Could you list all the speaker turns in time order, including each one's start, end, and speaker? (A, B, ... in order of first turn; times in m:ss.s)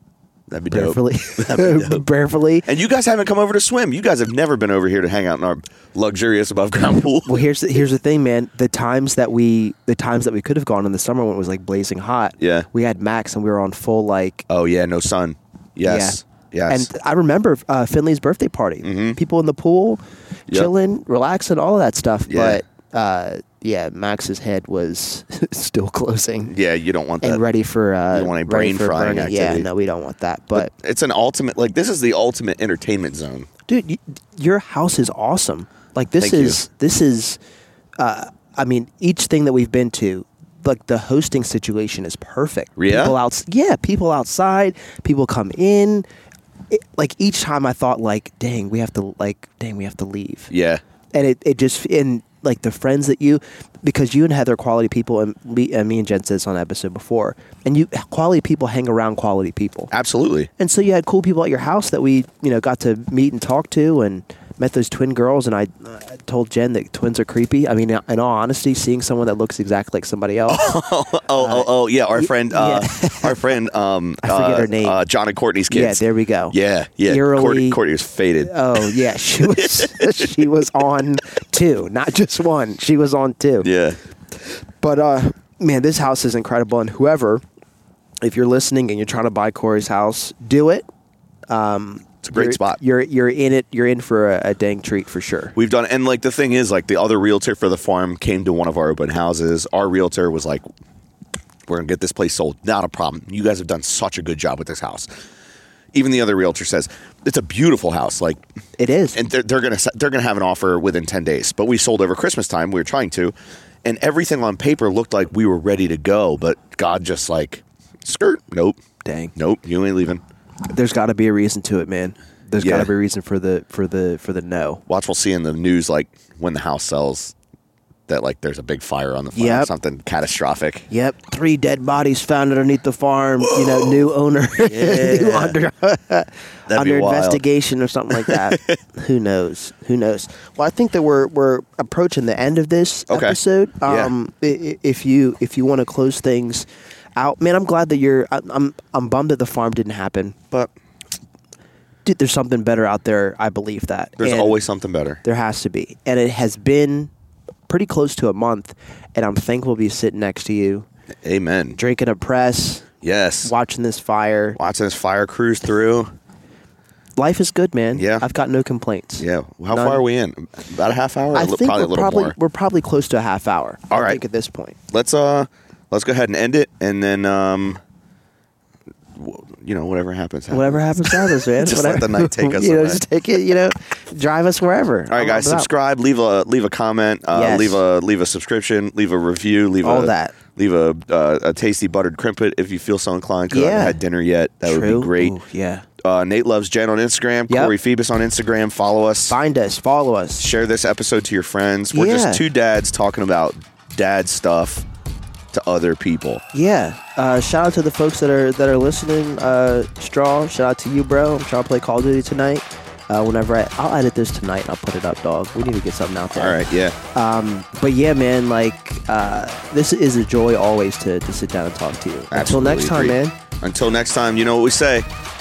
0:00.5-0:02.0 A
0:00.7-0:02.7 B
0:02.6-0:07.5 A
0:07.2-0:14.5 B
0:12.4-0:12.7 A
0:14.5-0:16.9 A
0:15.8-0:26.5 B
0:18.8-0:19.2 A
0:22.3-0:22.6 A
0:26.4-0:27.4 A
0:27.2-0:30.7 B
0:28.1-0:29.7 A
0:30.6-0:33.5 A
0:33.7-0:37.4 B
0:36.2-0:36.6 A
0:38.0-0:46.1 B
0:42.8-0:43.2 A
0:46.7-0:50.5 B
0:50.5-0:50.8 A
0:51.1-0:59.9 B
0:59.9-1:00.5 A
1:00.6-1:10.7 B
1:10.5-1:20.4 A
1:11.4-1:13.6 B
1:14.2-1:15.0 B
1:15.7-1:16.6 B
1:17.1-1:17.8 B
1:18.4-1:23.7 B
1:23.6-1:24.0 A
1:24.8-1:27.4 B
1:28.2-1:30.8 B
1:31.5-1:35.6 B
1:32.2-1:32.8 A
1:35.6-1:40.6 A
1:41.7-1:45.1 A
1:45.9-1:48.4 A
1:48.8-1:49.2 B
1:49.1-1:58.8 A
1:59.0-1:59.3 B
1:59.4-2:00.2 A
2:00.7-2:04.8 B
2:02.6-2:02.9 A
2:04.9-2:07.4 A
2:08.1-2:10.9 A
2:09.4-2:09.7 B
2:10.9-2:30.4 B
2:13.4-2:14.0 A
2:14.6-2:15.6 A
2:16.7-2:17.4 A
2:18.2-2:18.8 A
2:23.1-2:24.1 A
2:32.0-2:34.6 B
2:34.2-2:35.2 A
2:35.2-2:37.1 B
2:37.7-2:40.9 B
2:41.2-2:41.8 A
2:41.8-2:42.9 B
2:43.0-2:43.5 A
2:43.4-2:44.6 B
2:44.6-2:46.1 A
2:47.2-2:50.0 B
2:47.9-2:48.3 A
2:49.2-2:52.4 A
2:51.3-2:54.8 B
2:53.9-2:54.2 A
2:54.9-2:57.8 A
2:59.2-3:03.0 A
3:00.5-3:05.7 B
3:05.1-3:15.4 A
3:07.3-3:07.8 B
3:09.8-3:10.4 B
3:13.5-3:14.0 B
3:14.7-3:15.9 B
3:16.0-3:19.4 A
3:19.3-3:20.5 B
3:20.4-3:24.8 A
3:21.9-3:22.4 B
3:25.5-3:26.4 A
3:26.5-3:36.6 B
3:36.3-3:37.0 A
3:37.1-3:43.4 B
3:42.3-3:45.1 A